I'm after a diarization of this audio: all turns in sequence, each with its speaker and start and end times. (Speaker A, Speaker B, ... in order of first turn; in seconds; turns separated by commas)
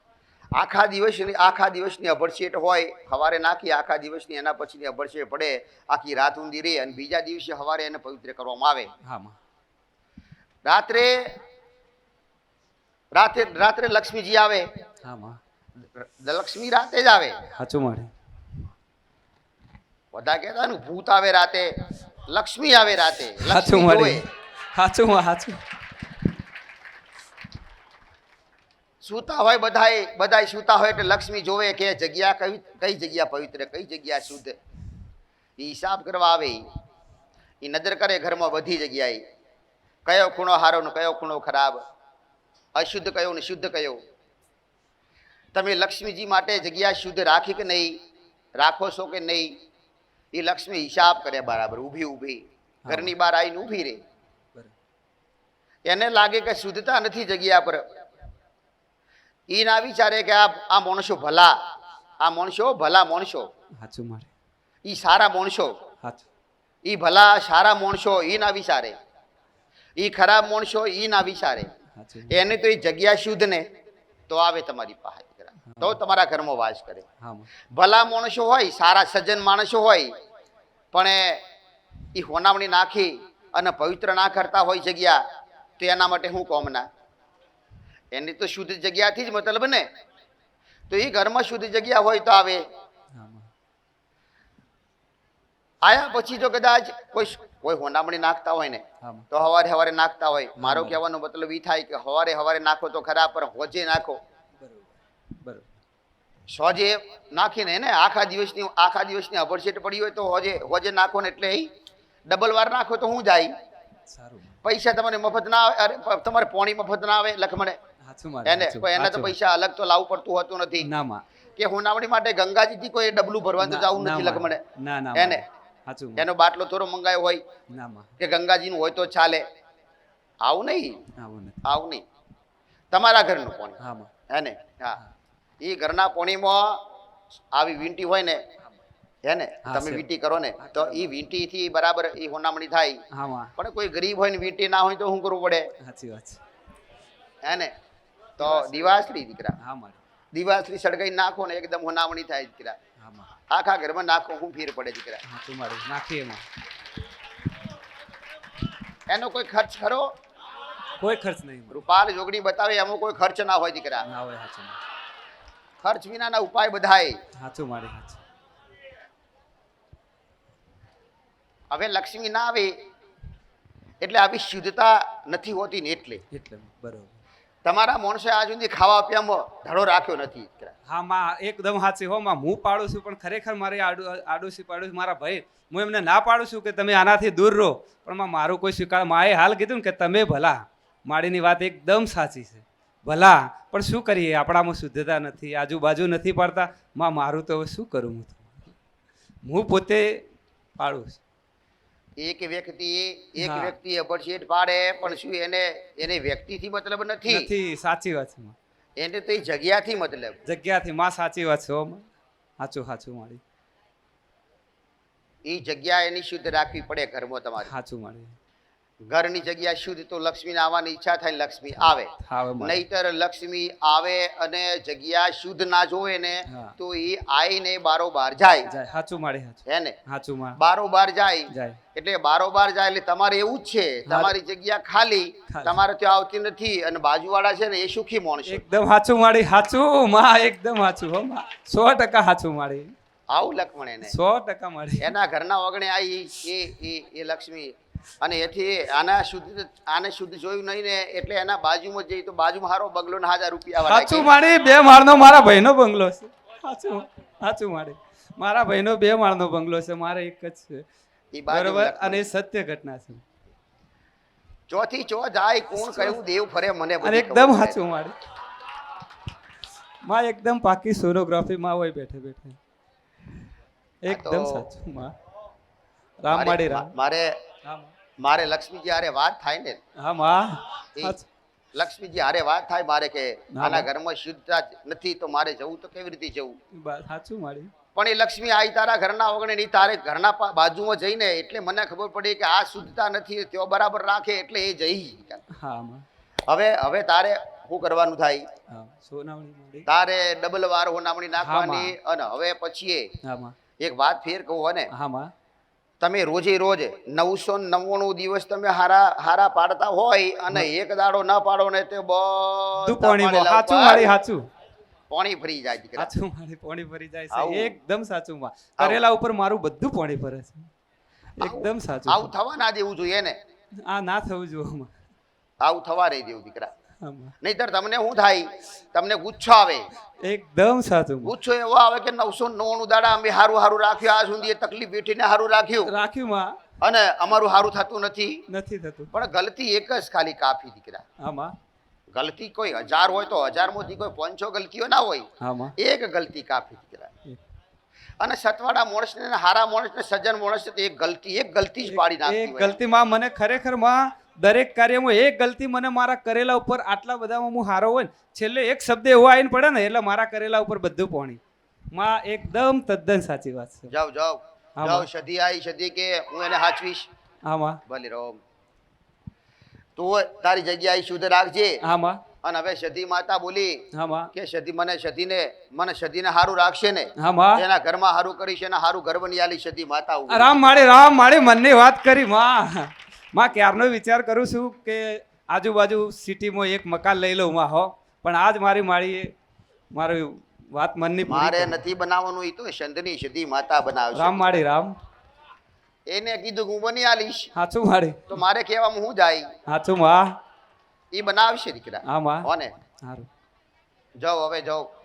Speaker A: 0.6-8.9, Speaker B: 9.0-9.4, Speaker A: 10.7-11.4, Speaker A: 13.1-14.7, Speaker B: 15.0-15.4, Speaker A: 15.8-17.4, Speaker B: 17.5-18.1, Speaker A: 20.1-24.2, Speaker B: 23.4-25.6, Speaker A: 29.0-34.5, Speaker A: 35.6-36.6, Speaker A: 37.6-39.2, Speaker A: 40.0-41.8, Speaker A: 42.8-44.0, Speaker A: 45.5-48.0, Speaker A: 48.6-49.5, Speaker A: 50.3-54.0, Speaker B: 52.9-53.1, Speaker A: 55.9-57.9, Speaker A: 59.5-61.6, Speaker A: 62.2-63.5, Speaker B: 63.8-64.3, Speaker A: 64.8-65.8, Speaker A: 66.8-69.0, Speaker A: 70.0-71.7, Speaker B: 71.9-72.3, Speaker A: 72.3-73.7, Speaker A: 74.3-77.0, Speaker B: 75.7-76.0, Speaker B: 77.2-77.5, Speaker A: 77.7-80.1, Speaker A: 80.9-81.4, Speaker A: 82.1-85.2, Speaker A: 85.8-86.9, Speaker A: 88.1-89.9, Speaker A: 90.9-92.6, Speaker B: 93.1-93.5, Speaker A: 95.8-104.2, Speaker B: 99.0-99.3, Speaker B: 100.6-101.0, Speaker B: 104.6-105.7, Speaker A: 106.5-111.7, Speaker A: 112.3-113.5, Speaker B: 114.1-114.6, Speaker A: 114.6-117.8, Speaker B: 118.0-119.3, Speaker A: 118.4-120.9, Speaker B: 120.8-121.2, Speaker A: 121.6-124.6, Speaker B: 123.6-126.3, Speaker A: 125.1-125.4, Speaker A: 126.2-127.4, Speaker B: 127.7-128.1, Speaker A: 128.2-129.4, Speaker A: 130.4-131.0, Speaker B: 131.2-131.6, Speaker A: 131.6-132.0, Speaker A: 132.9-135.0, Speaker B: 133.8-134.1, Speaker A: 135.6-136.8, Speaker A: 137.5-138.4, Speaker A: 139.2-143.0, Speaker B: 139.6-140.1, Speaker B: 140.6-141.1, Speaker B: 143.1-143.5, Speaker A: 143.6-145.7, Speaker B: 145.8-146.4, Speaker A: 147.4-147.7, Speaker A: 148.4-149.6, Speaker B: 148.4-149.1, Speaker B: 149.6-150.0, Speaker A: 150.3-152.8, Speaker B: 153.0-153.3, Speaker A: 153.5-155.2, Speaker B: 155.2-156.4, Speaker A: 159.1-160.1, Speaker B: 161.0-161.8, Speaker A: 161.7-164.1, Speaker B: 164.0-164.8, Speaker A: 165.8-167.2, Speaker B: 167.3-168.2, Speaker A: 171.7-172.7, Speaker A: 174.0-176.2, Speaker B: 176.3-177.2, Speaker A: 177.6-180.7, Speaker B: 180.9-198.7, Speaker B: 199.4-200.2, Speaker B: 200.8-201.2, Speaker A: 202.2-207.5, Speaker B: 203.4-203.7, Speaker B: 207.2-208.6, Speaker A: 209.0-210.4, Speaker B: 210.4-212.1, Speaker B: 212.6-213.4, Speaker A: 215.4-217.7, Speaker B: 217.6-218.4, Speaker A: 219.0-228.7, Speaker B: 221.8-222.8, Speaker B: 226.5-226.7, Speaker B: 228.7-230.6, Speaker A: 229.7-229.9, Speaker A: 230.6-238.6, Speaker B: 231.5-231.8, Speaker B: 234.0-234.3, Speaker B: 235.5-235.8, Speaker B: 238.4-242.9, Speaker A: 243.3-244.1, Speaker B: 244.0-245.1, Speaker A: 245.0-254.3, Speaker B: 253.8-260.8, Speaker A: 261.3-262.3, Speaker B: 261.5-263.2, Speaker A: 264.7-267.8, Speaker B: 265.7-266.2, Speaker B: 267.0-268.1, Speaker B: 270.0-272.6, Speaker B: 274.0-275.1, Speaker A: 274.1-274.7, Speaker B: 276.2-276.9, Speaker A: 276.3-277.4, Speaker B: 277.6-277.9, Speaker A: 278.2-279.8, Speaker B: 280.0-281.3, Speaker A: 281.7-286.6, Speaker B: 283.5-283.9, Speaker B: 286.7-287.7, Speaker A: 287.9-295.4, Speaker B: 295.5-296.0, Speaker A: 296.5-298.5, Speaker B: 298.7-299.9, Speaker A: 299.9-303.1, Speaker B: 301.4-301.9, Speaker B: 303.2-303.5, Speaker A: 303.8-304.9, Speaker B: 304.9-305.3, Speaker A: 306.0-314.1, Speaker B: 312.8-314.4, Speaker A: 315.1-316.1, Speaker B: 316.0-320.7, Speaker A: 317.3-317.7, Speaker B: 321.4-322.3, Speaker A: 321.4-323.4, Speaker B: 323.8-324.9, Speaker A: 325.6-326.7, Speaker B: 327.0-327.3, Speaker A: 327.4-329.9, Speaker B: 330.2-331.3, Speaker A: 331.2-335.9, Speaker B: 335.9-336.6, Speaker A: 336.8-338.4, Speaker B: 338.5-339.1, Speaker A: 339.1-341.0, Speaker B: 341.2-341.5, Speaker A: 342.1-347.1, Speaker B: 345.4-345.7, Speaker A: 348.2-352.8, Speaker B: 351.8-361.4, Speaker B: 361.9-363.9, Speaker A: 363.9-367.1, Speaker B: 364.8-365.1, Speaker B: 367.4-367.8, Speaker A: 367.9-368.4, Speaker A: 369.9-371.8, Speaker B: 371.8-372.2, Speaker A: 372.4-380.5, Speaker B: 373.9-374.3, Speaker B: 377.2-377.6, Speaker B: 380.3-389.3, Speaker B: 389.9-391.8, Speaker A: 391.3-394.5, Speaker B: 394.1-394.9, Speaker A: 396.1-397.5, Speaker B: 397.5-398.4, Speaker A: 398.3-399.5, Speaker B: 399.7-400.3, Speaker A: 401.1-402.7, Speaker B: 402.1-402.5, Speaker B: 403.0-403.3, Speaker A: 404.2-404.9